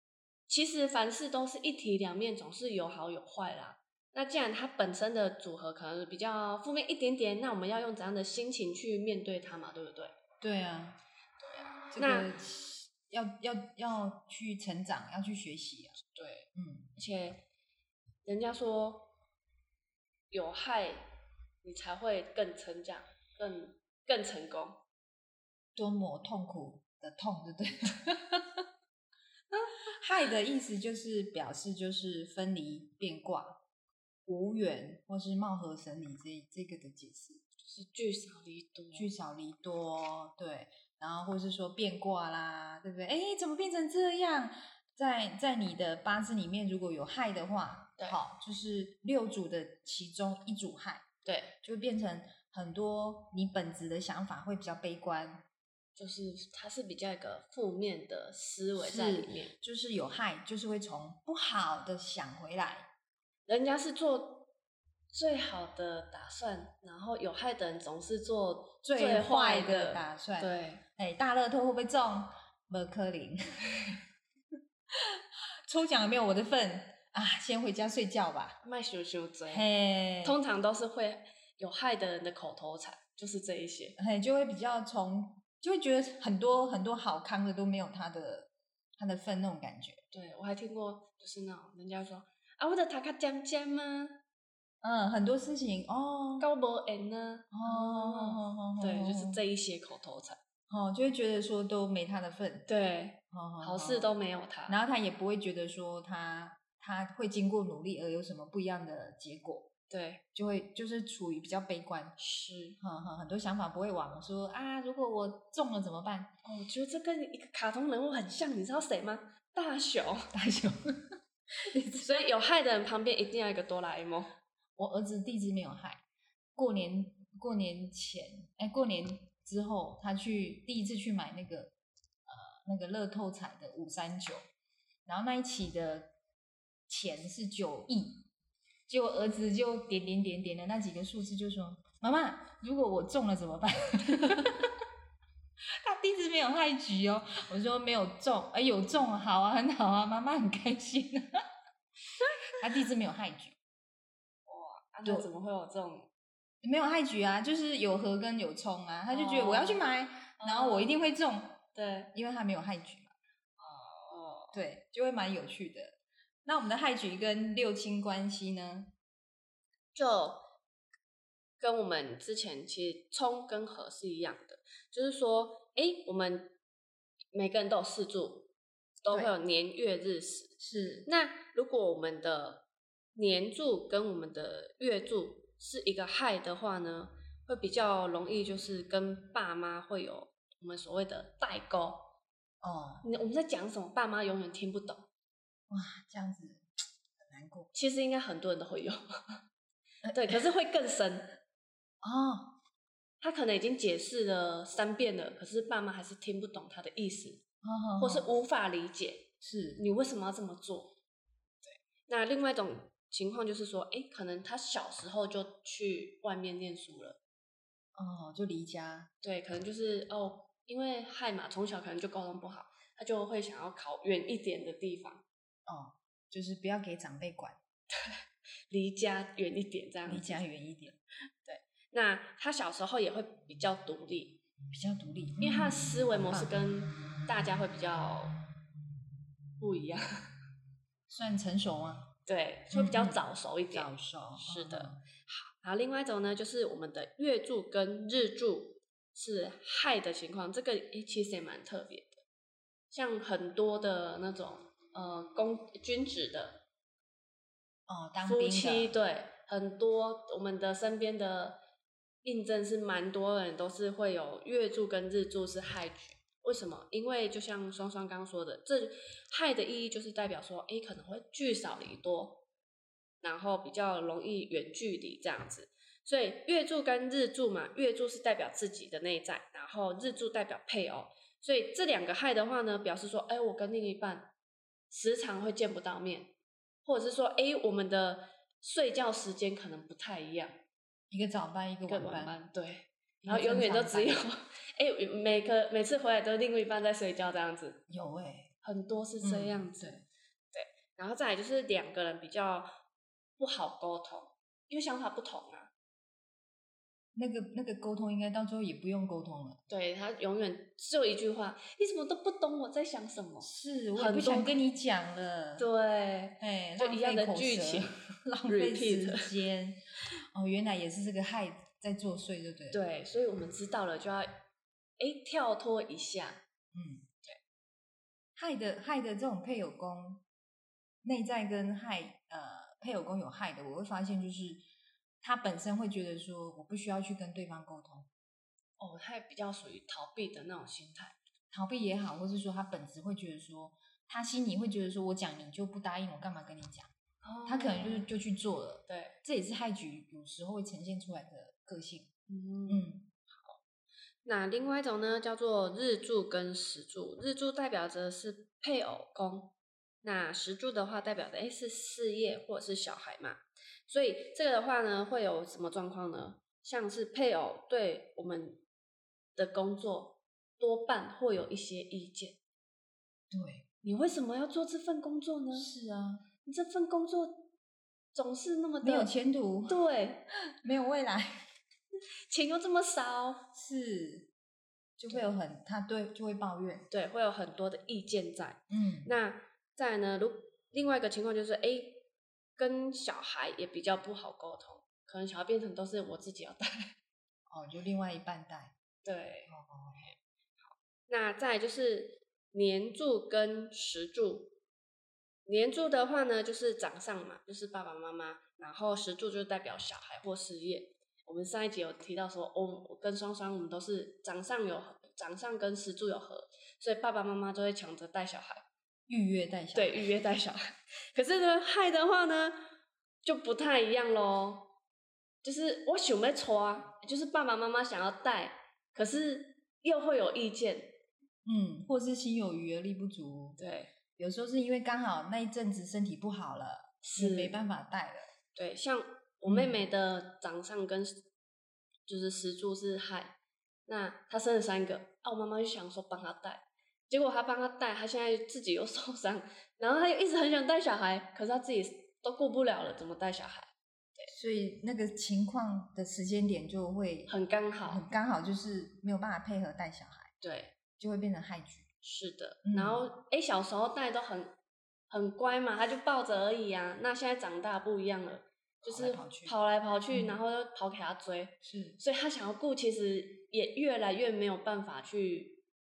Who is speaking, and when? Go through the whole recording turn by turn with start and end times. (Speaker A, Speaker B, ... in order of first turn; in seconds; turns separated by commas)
Speaker A: 0.5-10.1, Speaker B: 10.4-11.0, Speaker A: 11.4-12.3, Speaker B: 11.9-16.0, Speaker A: 16.1-17.4, Speaker B: 16.6-16.9, Speaker A: 18.2-19.1, Speaker A: 20.3-21.1, Speaker A: 21.6-24.8, Speaker B: 25.8-28.7, Speaker B: 29.5-33.6, Speaker B: 34.3-37.4, Speaker A: 37.6-39.1, Speaker B: 39.0-51.0, Speaker A: 51.2-51.6, Speaker B: 51.6-55.5, Speaker A: 56.0-59.6, Speaker B: 58.8-62.9, Speaker A: 63.5-64.5, Speaker A: 65.1-70.8, Speaker B: 68.8-74.0, Speaker B: 74.9-78.6, Speaker A: 78.6-79.7, Speaker B: 79.5-80.4, Speaker A: 80.2-84.0, Speaker B: 84.0-90.0, Speaker A: 90.1-94.2, Speaker B: 94.8-96.5, Speaker A: 96.4-100.4, Speaker B: 97.5-99.4, Speaker B: 100.7-102.7, Speaker A: 102.7-104.8, Speaker B: 103.3-104.2, Speaker B: 104.7-109.7, Speaker A: 109.9-110.2, Speaker B: 110.3-112.2, Speaker A: 112.2-112.8, Speaker B: 112.8-116.3, Speaker A: 116.4-120.3, Speaker B: 120.3-122.3, Speaker A: 121.9-124.3, Speaker B: 124.8-126.0, Speaker B: 126.5-131.7, Speaker B: 132.3-134.4, Speaker B: 135.1-136.1, Speaker B: 136.9-138.2, Speaker B: 138.9-144.8, Speaker B: 145.7-151.4, Speaker B: 152.5-153.6, Speaker A: 154.5-156.1, Speaker B: 155.0-155.3, Speaker B: 156.6-161.6, Speaker A: 159.1-159.8, Speaker A: 160.4-160.9, Speaker A: 161.8-162.1, Speaker B: 162.1-163.1, Speaker A: 163.6-164.5, Speaker B: 164.5-168.9, Speaker A: 169.9-170.5, Speaker A: 171.6-176.6, Speaker A: 177.3-178.5, Speaker A: 179.0-192.1, Speaker B: 180.6-181.1, Speaker B: 192.6-193.0, Speaker A: 193.0-195.1, Speaker B: 195.7-196.6, Speaker B: 197.2-197.7, Speaker A: 197.7-199.4, Speaker B: 200.0-200.4, Speaker A: 200.1-201.4, Speaker B: 202.0-202.5, Speaker A: 203.2-207.4, Speaker B: 207.6-208.3, Speaker A: 208.0-210.9, Speaker B: 209.4-209.8, Speaker A: 211.7-217.2, Speaker B: 217.9-219.1, Speaker A: 219.2-225.2, Speaker B: 225.7-227.6, Speaker A: 227.9-230.4, Speaker B: 230.1-231.0, Speaker A: 231.4-234.4, Speaker B: 234.7-236.6, Speaker A: 235.4-238.4, Speaker A: 239.6-240.3, Speaker B: 241.1-242.1, Speaker A: 242.3-252.2, Speaker B: 242.7-245.0, Speaker A: 252.9-256.6, Speaker B: 257.9-258.9, Speaker A: 258.2-261.6, Speaker A: 262.2-272.4, Speaker A: 273.2-284.3, Speaker A: 284.9-290.6, Speaker B: 291.1-292.4, Speaker A: 291.9-297.8, Speaker B: 293.2-294.3, Speaker B: 297.9-298.5, Speaker A: 298.6-300.0, Speaker B: 299.2-300.0, Speaker A: 300.5-302.7, Speaker A: 303.4-305.7, Speaker B: 307.1-309.6, Speaker A: 309.7-314.5, Speaker B: 313.4-315.7, Speaker A: 315.6-317.9, Speaker B: 316.4-319.8, Speaker A: 318.5-319.3, Speaker B: 320.3-322.8, Speaker A: 322.7-324.4, Speaker A: 325.0-326.4, Speaker B: 326.7-327.1, Speaker B: 328.4-330.2, Speaker B: 331.0-334.6, Speaker B: 335.2-338.1, Speaker A: 338.8-341.1, Speaker B: 341.5-346.9, Speaker A: 347.2-348.1, Speaker B: 347.5-352.1, Speaker A: 348.9-349.2, Speaker A: 352.3-353.6, Speaker B: 352.7-353.1, Speaker A: 354.2-368.6, Speaker A: 369.4-372.4, Speaker B: 373.3-373.6, Speaker A: 373.8-375.7, Speaker B: 375.5-376.2, Speaker A: 376.4-377.5, Speaker A: 378.1-379.1, Speaker B: 378.8-379.8, Speaker A: 379.7-380.3, Speaker B: 380.5-381.5, Speaker A: 382.3-383.5, Speaker B: 383.5-384.3, Speaker B: 385.0-386.9, Speaker A: 386.9-392.1, Speaker B: 388.7-389.1, Speaker A: 392.6-396.9, Speaker B: 397.5-398.7, Speaker A: 399.0-404.5, Speaker B: 399.5-400.1, Speaker A: 405.5-418.6, Speaker B: 419.1-420.1, Speaker A: 419.8-422.6, Speaker A: 423.2-424.7, Speaker A: 425.4-430.9, Speaker B: 431.4-433.6, Speaker A: 433.6-433.9, Speaker B: 434.2-438.2, Speaker A: 437.0-437.6, Speaker A: 438.6-441.2, Speaker B: 439.5-439.8, Speaker A: 442.1-443.4, Speaker A: 443.9-454.3, Speaker B: 454.3-457.3, Speaker A: 457.3-458.1, Speaker B: 457.9-460.3, Speaker A: 460.4-460.7, Speaker B: 461.0-461.9, Speaker A: 462.0-464.6, Speaker B: 462.6-463.0, Speaker A: 465.1-475.6, Speaker B: 468.9-469.5, Speaker B: 470.1-470.4, Speaker B: 471.6-472.0